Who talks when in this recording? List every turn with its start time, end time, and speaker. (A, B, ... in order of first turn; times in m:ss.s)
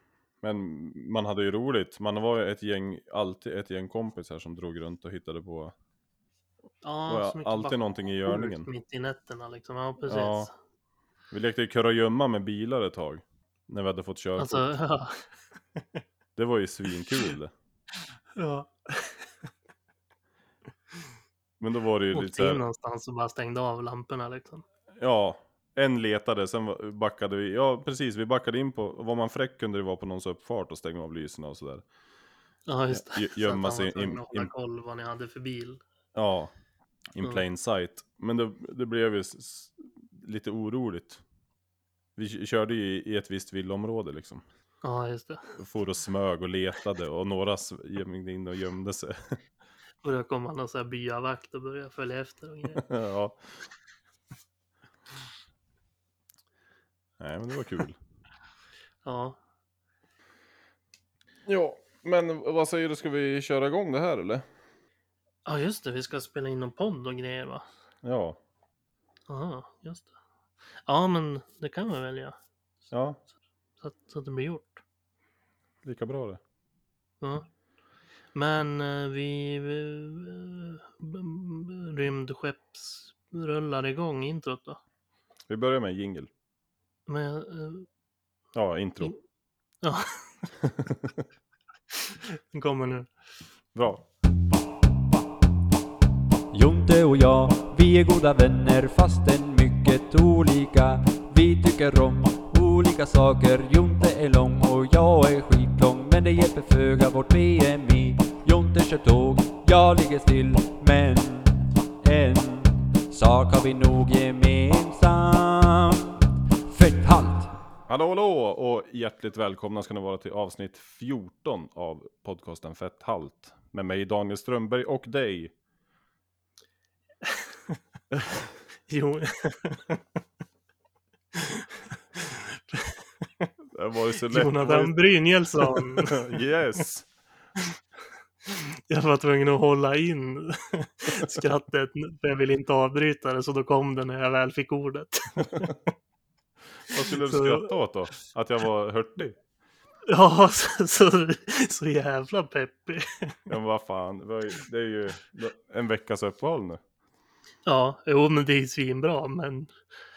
0:00.4-0:05.7 A
0:06.8-0:10.5 B
0:07.1-0:08.7 A
0:10.1-0:10.5 A
0:11.3-0:14.8 A
0:14.4-0:15.3 B
0:16.4-0:17.5 A
0:18.4-0:19.3 B
0:21.6-0:22.6 A
0:22.1-0:24.6 B
0:25.0-0:31.8 A
0:32.7-0:35.8 B
0:32.9-0:34.5 A
0:36.2-0:36.5 A
0:37.1-0:41.2 A
0:42.2-0:44.4 A
0:44.8-0:45.6 B
0:45.6-0:49.4 A
0:50.0-0:52.8 B
0:52.7-0:53.4 A
0:57.2-0:58.0 A
0:59.0-0:59.4 B
1:01.5-1:04.4 A
1:05.4-1:07.7 B
1:08.0-1:08.4 A
1:09.3-1:10.1 B
1:10.9-1:12.4 B
1:12.9-1:13.2 A
1:13.8-1:14.8 B
1:15.8-1:16.4 A
1:17.2-1:17.5 B
1:18.3-1:24.8 B
1:25.5-1:26.3 A
1:27.1-1:27.9 B
1:28.6-1:29.1 A
1:29.8-1:30.5 B
1:30.6-1:31.2 A
1:31.9-1:33.1 B
1:33.8-1:34.0 A
1:36.5-1:57.5 C
1:57.9-2:05.5 A
2:07.2-2:07.8 B
2:08.9-2:10.0 B
2:11.4-2:13.5 B
2:13.7-2:15.0 A
2:14.3-2:16.4 B
2:15.7-2:17.1 A
2:18.4-2:25.8 B
2:26.9-2:29.4 A
2:27.2-2:27.7 B
2:30.1-2:33.4 B
2:33.5-2:36.8 A
2:37.7-2:39.8 B